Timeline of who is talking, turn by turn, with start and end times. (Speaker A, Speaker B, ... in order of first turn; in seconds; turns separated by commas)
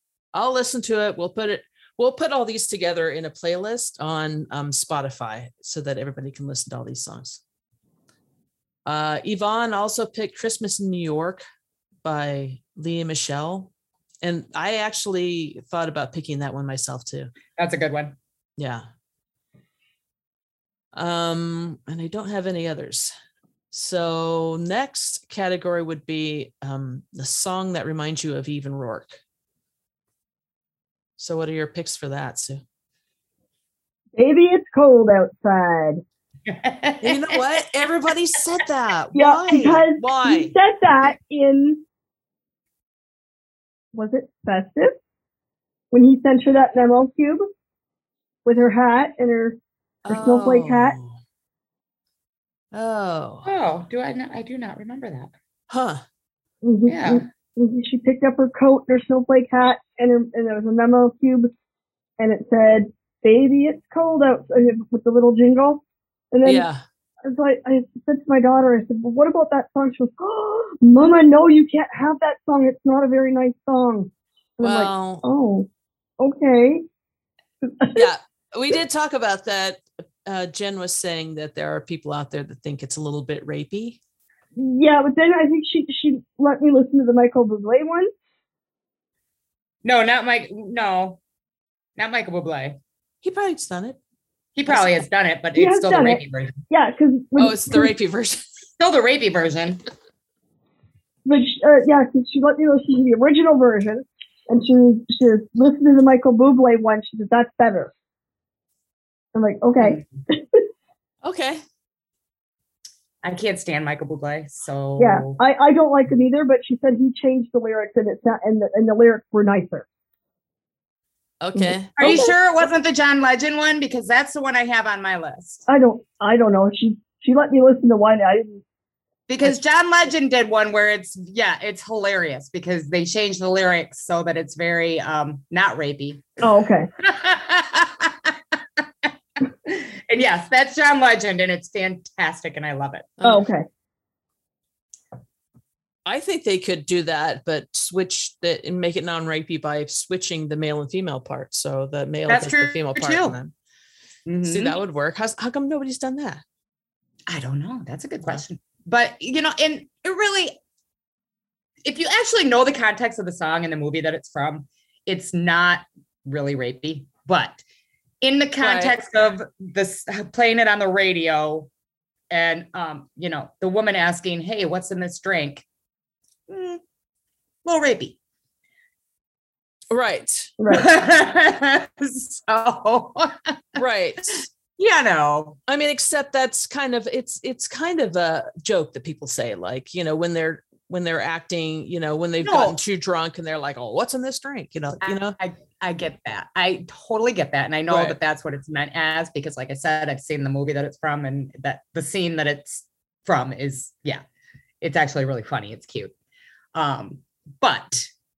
Speaker A: 0.3-7.4, Speaker A: 8.9-11.4, Speaker A: 12.0-13.7, Speaker A: 14.2-17.3, Speaker B: 17.6-18.2, Speaker A: 18.6-18.9, Speaker A: 20.9-23.1, Speaker A: 23.7-29.2, Speaker A: 31.2-32.6, Speaker C: 34.1-36.0, Speaker B: 36.5-37.4, Speaker A: 37.0-40.5, Speaker C: 39.1-41.8, Speaker C: 43.9-44.9, Speaker C: 45.9-47.5, Speaker C: 48.4-51.0, Speaker A: 50.0-51.1, Speaker A: 52.7-53.5, Speaker B: 53.4-55.4, Speaker A: 55.7-56.0, Speaker C: 56.6-61.5, Speaker B: 56.9-57.2, Speaker C: 62.2-66.7, Speaker A: 66.4-66.8, Speaker C: 67.2-75.7, Speaker A: 74.6-75.2, Speaker C: 76.2-76.8, Speaker C: 77.6-78.1, Speaker A: 77.9-84.0, Speaker C: 84.5-88.1, Speaker B: 89.8-91.2, Speaker B: 92.0-92.8, Speaker A: 93.2-94.0, Speaker B: 94.5-96.6, Speaker A: 94.7-94.9, Speaker C: 95.5-97.9, Speaker A: 97.4-98.5, Speaker B: 98.8-99.8, Speaker C: 101.2-107.9, Speaker C: 109.3-110.7, Speaker B: 109.8-110.0, Speaker A: 111.2-111.6, Speaker B: 113.2-115.4, Speaker C: 115.0-119.9, Speaker A: 121.4-122.3, Speaker C: 121.5-122.3, Speaker B: 122.0-125.6, Speaker C: 125.7-128.6, Speaker B: 129.3-143.2, Speaker C: 136.4-136.9, Speaker C: 143.2-143.7, Speaker A: 146.1-153.5, Speaker B: 152.3-153.4, Speaker B: 154.2-154.8, Speaker A: 154.5-156.4, Speaker B: 157.3-160.6, Speaker B: 161.8-167.6, Speaker B: 168.2-171.7, Speaker A: 168.6-168.9, Speaker B: 172.3-175.7, Speaker B: 176.5-176.8, Speaker B: 177.6-178.2, Speaker A: 179.9-180.5, Speaker C: 180.6-180.9, Speaker B: 180.7-183.8, Speaker A: 183.8-184.5, Speaker B: 184.8-185.6, Speaker A: 185.7-195.4, Speaker B: 192.4-192.8, Speaker B: 195.0-204.2, Speaker A: 197.9-198.2, Speaker B: 204.8-206.1, Speaker B: 206.7-208.1